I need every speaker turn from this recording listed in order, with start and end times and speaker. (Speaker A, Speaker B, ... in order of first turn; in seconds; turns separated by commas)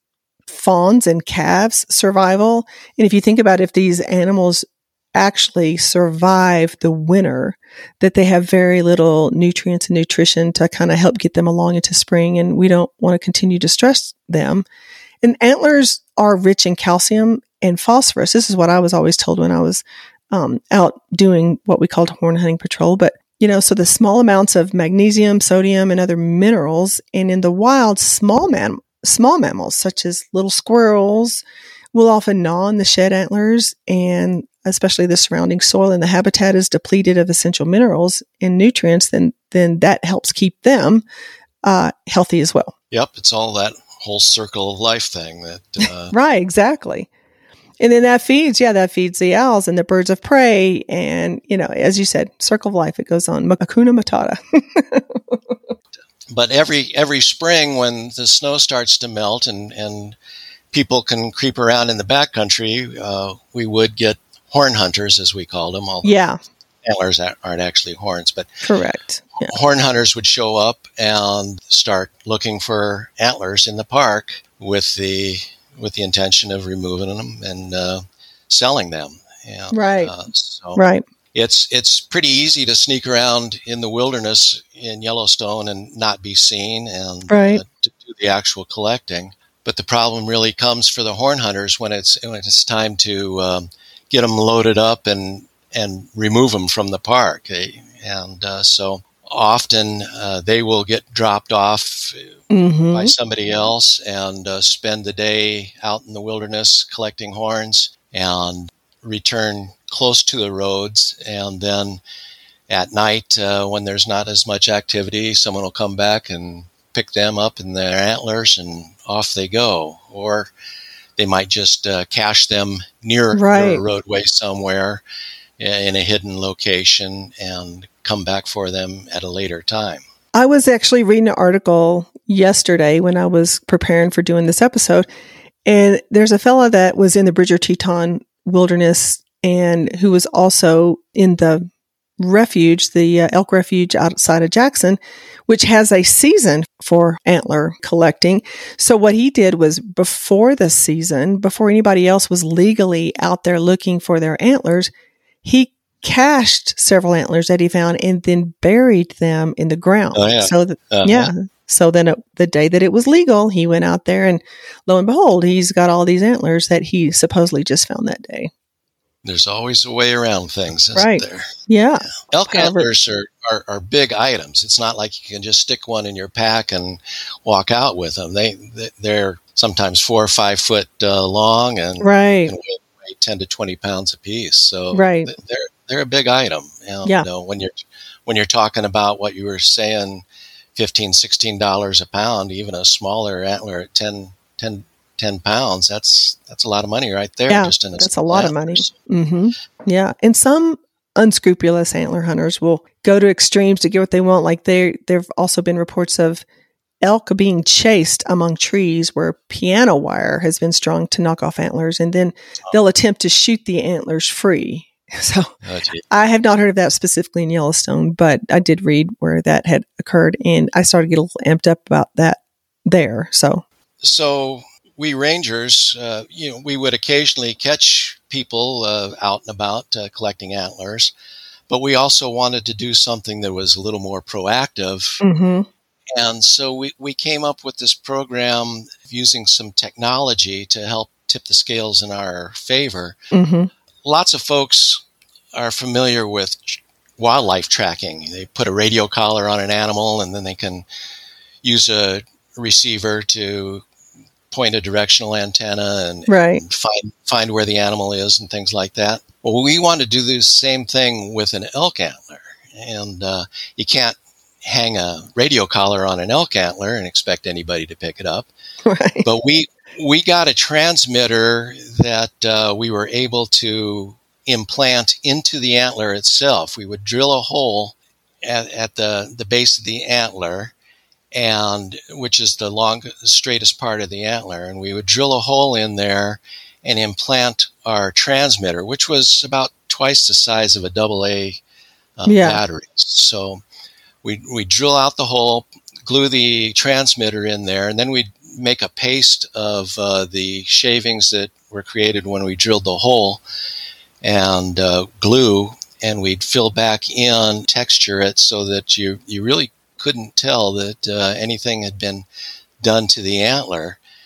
Speaker A: 0.5-14.7, Speaker A: 15.2-31.4, Speaker A: 31.9-41.0, Speaker A: 41.6-42.7, Speaker B: 42.9-46.1, Speaker A: 46.1-47.1, Speaker A: 47.8-55.4, Speaker B: 56.3-60.2, Speaker B: 60.7-66.2, Speaker A: 66.0-66.4, Speaker B: 66.8-68.5, Speaker A: 68.6-69.5, Speaker B: 69.4-80.8, Speaker A: 79.7-80.1, Speaker A: 80.8-81.0, Speaker B: 81.3-112.0, Speaker A: 87.3-87.6, Speaker A: 102.5-103.1, Speaker B: 112.7-120.5, Speaker B: 121.2-125.0, Speaker A: 123.3-123.8, Speaker B: 125.6-130.0, Speaker A: 130.3-135.1, Speaker A: 135.7-141.7, Speaker A: 142.2-154.9, Speaker A: 155.4-168.5, Speaker B: 160.1-161.3, Speaker B: 169.2-171.5, Speaker A: 170.9-172.9, Speaker B: 172.0-198.9, Speaker A: 182.0-182.5, Speaker A: 184.9-185.3, Speaker A: 197.5-206.4, Speaker A: 207.0-215.5, Speaker B: 215.6-216.0, Speaker A: 216.1-223.6, Speaker B: 224.0-231.1, Speaker B: 231.7-235.2, Speaker A: 235.2-235.7, Speaker B: 236.1-243.2, Speaker A: 243.3-243.7, Speaker B: 244.0-250.8, Speaker B: 251.6-253.8, Speaker B: 254.5-268.5, Speaker A: 256.3-256.6, Speaker A: 268.9-269.3, Speaker B: 269.2-280.7, Speaker B: 281.3-291.6, Speaker B: 292.2-293.6, Speaker A: 292.3-292.6, Speaker B: 294.2-303.4, Speaker B: 304.2-312.2, Speaker B: 312.8-314.0